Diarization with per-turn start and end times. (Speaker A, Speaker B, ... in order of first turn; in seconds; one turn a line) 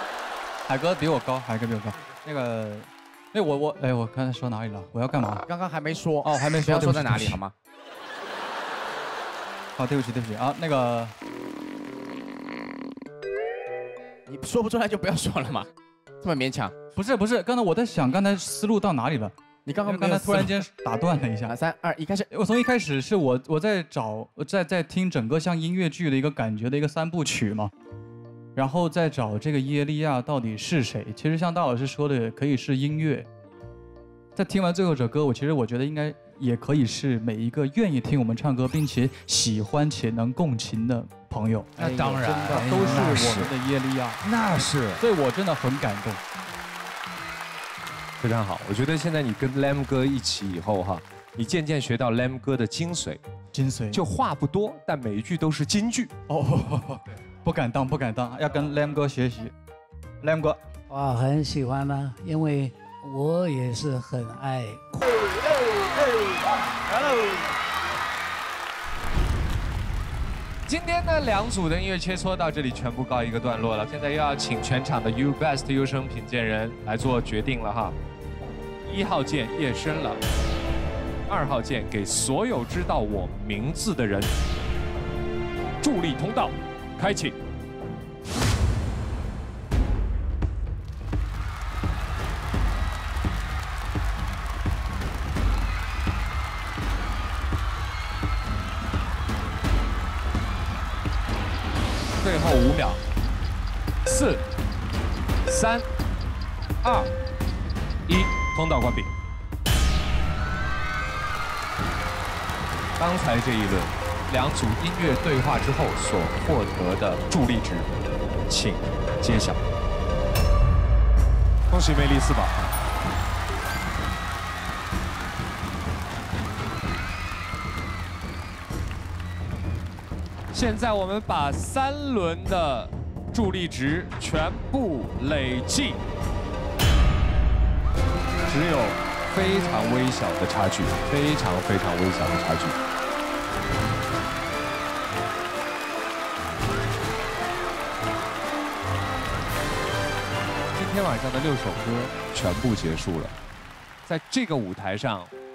Speaker A: 0.7-5.4
Speaker B: 5.5-7.5
Speaker A: 6.2-7.4
Speaker A: 9.8-11.1
Speaker B: 14.3-15.7
Speaker B: 16.2-16.7
Speaker A: 16.9-19.4
Speaker B: 19.6-20.6
Speaker A: 19.9-21.6
Speaker B: 21.4-22.3
Speaker A: 22.3-27.7
Speaker A: 28.6-33.3
Speaker A: 34.4-44.2
Speaker C: 41.8-43.5
Speaker D: 42.9-43.4
Speaker C: 44.2-45.0
Speaker A: 44.9-46.2
Speaker D: 48.2-53.2
Speaker A: 53.5-54.0
Speaker D: 53.9-56.1
Speaker A: 56.3-59.5
Speaker A: 60.2-60.6
Speaker E: 60.9-64.8
Speaker D: 70.7-78.0
Speaker D: 78.9-80.2
Speaker D: 81.3-84.3
Speaker D: 85.8-87.4
Speaker D: 102.2-103.0
Speaker D: 104.1-104.4
Speaker D: 105.5-105.8
Speaker D: 108.1-109.1
Speaker D: 113.0-117.9
Speaker D: 118.5-119.6
Speaker D: 121.7-122.6
Speaker D: 130.5-136.0
Speaker D: 138.4-142.8
Speaker D: 150.7-153.3
Speaker D: 154.1-155.3